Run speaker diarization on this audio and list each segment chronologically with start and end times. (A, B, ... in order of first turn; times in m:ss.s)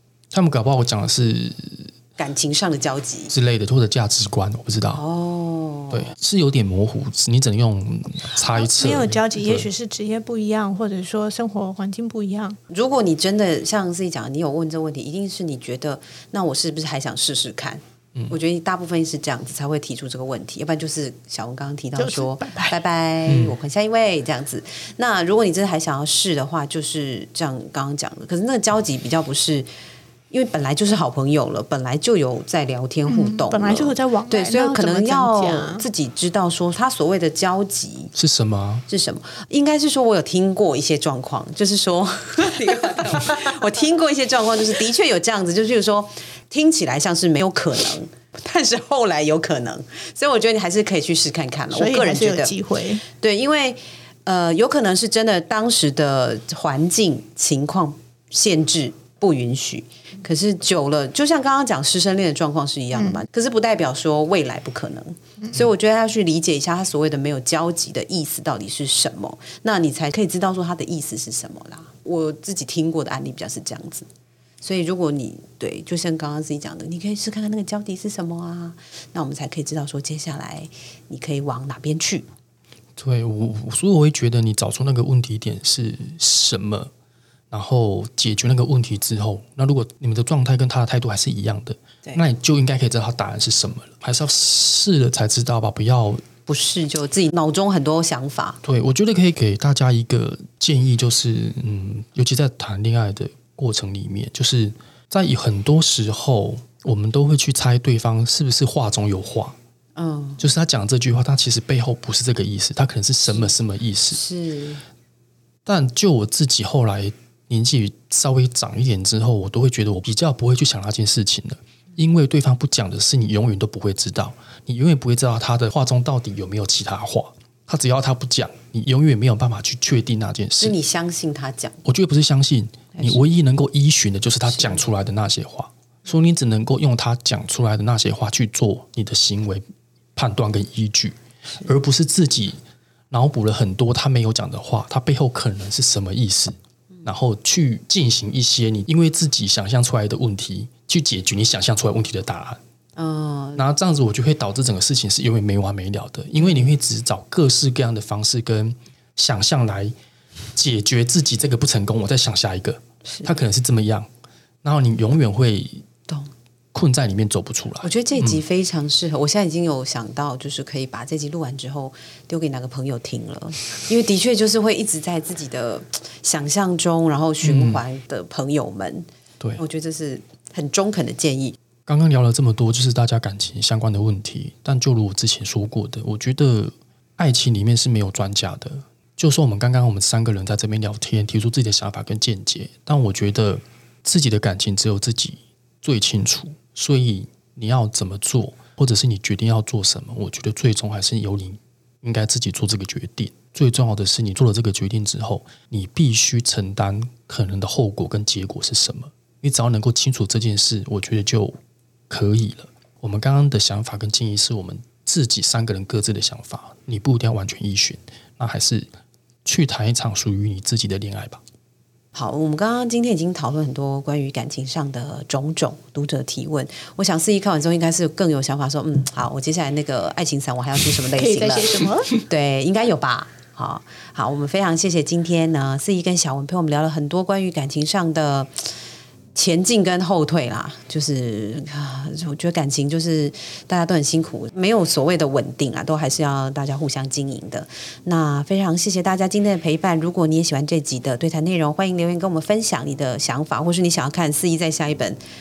0:00.3-0:01.9 A
0:02.2-0:03.3 B
0:03.3-0:05.0 A
0:04.9-0:06.1 B
0:05.9-0:09.7 A
0:08.4-0:12.6 C
0:12.7-0:29.7 B
0:22.0-0:22.8 C
0:23.3-0:23.6 A
0:30.3-0:38.1 B
0:33.1-0:35.8 C
0:38.2-0:38.8 A
0:38.9-0:52.5 B
0:51.7-0:53.0 C
0:53.1-1:14.1 B
1:03.0-1:03.2 C
1:14.6-1:22.3 B
1:23.0-1:26.9 A
1:27.5-1:36.2 A
1:36.5-1:38.6 B
1:38.6-1:49.6 A
1:49.9-1:50.4 B
1:50.4-1:54.2 A
1:54.1-1:54.8 B
1:55.6-2:10.8 A
2:10.6-2:11.8 B
2:11.8-2:19.6 A
2:12.9-2:13.2 B
2:14.5-2:14.8 B
2:20.2-2:22.6 A
2:23.1-2:32.6 A
2:33.0-2:33.6 B
2:33.5-2:39.9 A
2:36.4-2:36.7 B
2:40.5-2:44.1 A
2:43.0-2:43.3 B
2:44.6-2:45.8 A
2:46.7-2:48.4 A
2:47.8-2:59.1 B
2:57.4-2:57.8 A
2:59.6-3:01.6 B
3:01.8-3:31.6 A
3:32.1-3:38.9 A
3:39.4-3:41.4 A
3:42.1-3:58.8 B
3:51.1-3:52.2 C
3:59.3-4:15.2 B